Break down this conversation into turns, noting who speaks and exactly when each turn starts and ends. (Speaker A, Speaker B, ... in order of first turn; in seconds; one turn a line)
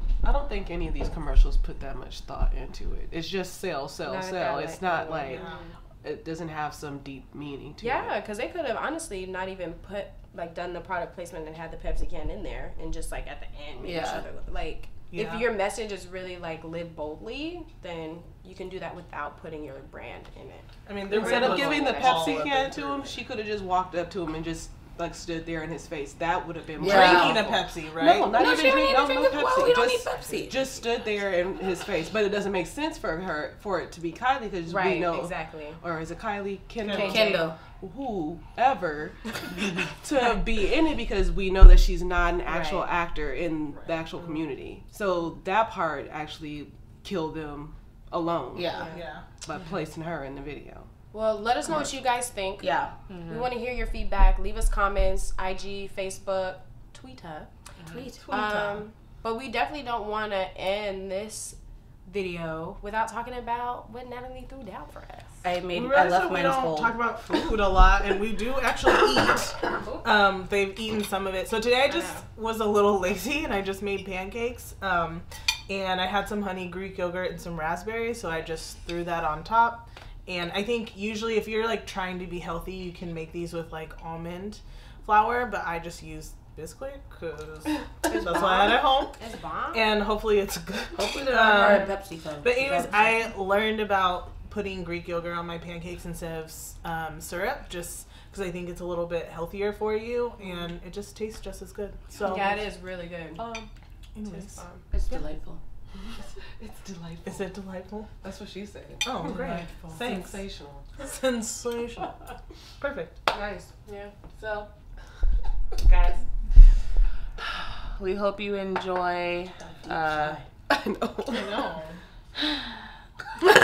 Speaker A: 0.2-5.5
Speaker B: 4.0-5.8
Speaker C: 5.3-5.6
Speaker A: 6.0-8.2
Speaker B: 7.8-22.7
Speaker D: 13.8-14.2
Speaker C: 15.1-15.5
Speaker C: 20.9-22.8
Speaker A: 21.1-48.9
Speaker D: 26.8-27.4
Speaker C: 26.8-28.4
Speaker D: 28.3-30.7
Speaker B: 34.6-35.8
Speaker C: 36.8-37.1
Speaker B: 36.9-37.4
Speaker D: 37.0-37.6
Speaker B: 42.5-42.8
Speaker C: 43.7-44.0
Speaker D: 48.5-48.9
Speaker B: 48.7-49.0
Speaker C: 48.9-49.2
Speaker A: 49.4-50.9
Speaker B: 51.1-65.4
Speaker D: 52.6-52.9
Speaker E: 53.1-53.5
Speaker E: 57.8-58.1
Speaker C: 58.1-58.8
Speaker D: 65.4-67.0
Speaker C: 65.7-89.2
Speaker B: 71.9-72.2
Speaker B: 88.1-89.8
Speaker C: 89.7-102.6
Speaker D: 90.9-93.3
Speaker B: 102.1-103.5
Speaker A: 102.3-102.6
Speaker A: 103.3-103.7
Speaker C: 104.1-105.2
Speaker B: 104.3-104.9
Speaker D: 104.9-105.6
Speaker A: 106.2-107.4
Speaker C: 107.2-108.1
Speaker A: 108.2-110.8
Speaker C: 109.0-110.4
Speaker C: 111.0-112.1
Speaker C: 112.8-113.2
Speaker B: 113.3-114.1
Speaker E: 114.3-114.7
Speaker E: 115.8-116.2
Speaker E: 117.9-120.4
Speaker A: 120.7-121.6
Speaker C: 121.3-122.0